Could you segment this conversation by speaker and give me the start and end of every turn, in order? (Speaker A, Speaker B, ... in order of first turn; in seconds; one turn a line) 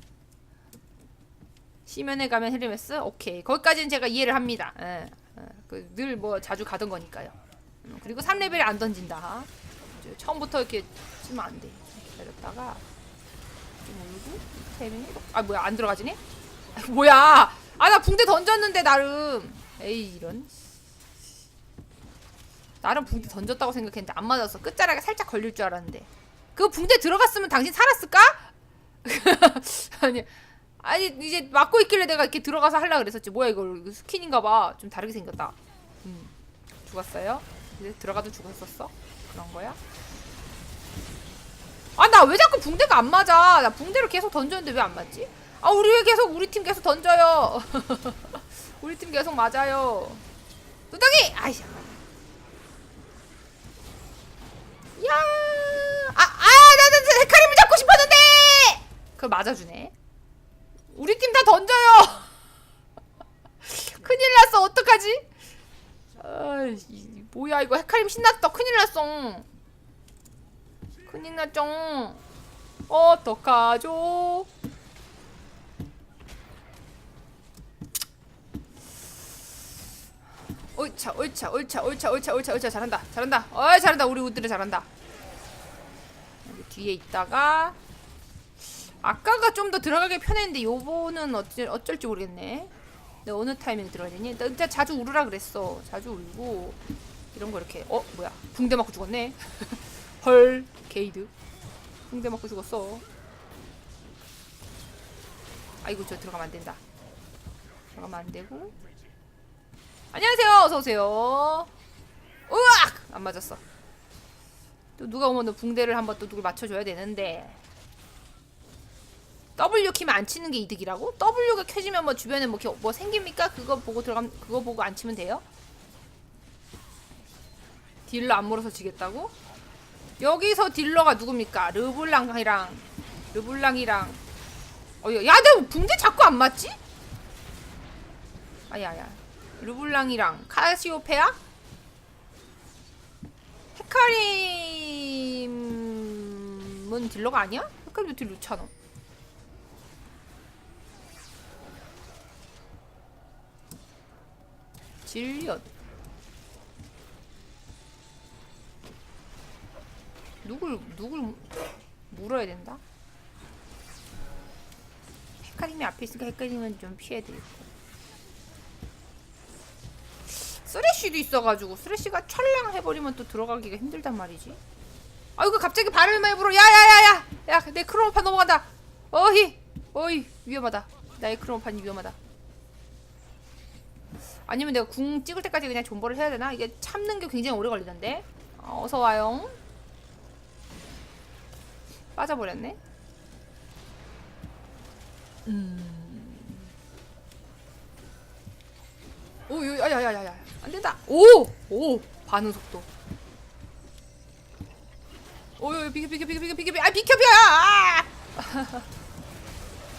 Speaker A: 1.9-12.8
Speaker A: 13.8-16.2
Speaker A: 16.8-20.5
Speaker A: 22.8-28.5
Speaker A: 29.0-36.3
Speaker A: 36.9-39.8
Speaker A: 42.0-50.2
Speaker A: 50.9-52.0
Speaker A: 55.0-59.9
Speaker A: 60.9-62.3
Speaker A: 63.6-65.3
Speaker A: 66.2-69.5
Speaker A: 71.1-72.2
Speaker A: 72.9-74.5
Speaker A: 80.8-84.9
Speaker A: 86.5-87.8
Speaker A: 89.0-92.7
Speaker A: 93.2-96.8
Speaker A: 97.3-101.3
Speaker A: 102.1-103.0
Speaker A: 105.8-106.8
Speaker A: 108.0-108.7
Speaker A: 110.1-111.7
Speaker A: 112.5-113.6
Speaker A: 115.0-117.6
Speaker A: 119.6-125.4
Speaker A: 128.1-129.3
Speaker A: 130.2-134.2
Speaker A: 135.0-136.8
Speaker A: 138.7-141.4
Speaker A: 143.7-148.7
Speaker A: 155.1-155.7
Speaker A: 160.4-161.5
Speaker A: 162.1-162.8
Speaker A: 165.4-167.7
Speaker A: 170.3-174.6
Speaker A: 175.4-182.2
Speaker A: 184.5-189.6
Speaker A: 192.2-192.8
Speaker A: 195.5-196.7
Speaker A: 199.5-202.9
Speaker A: 205.6-208.8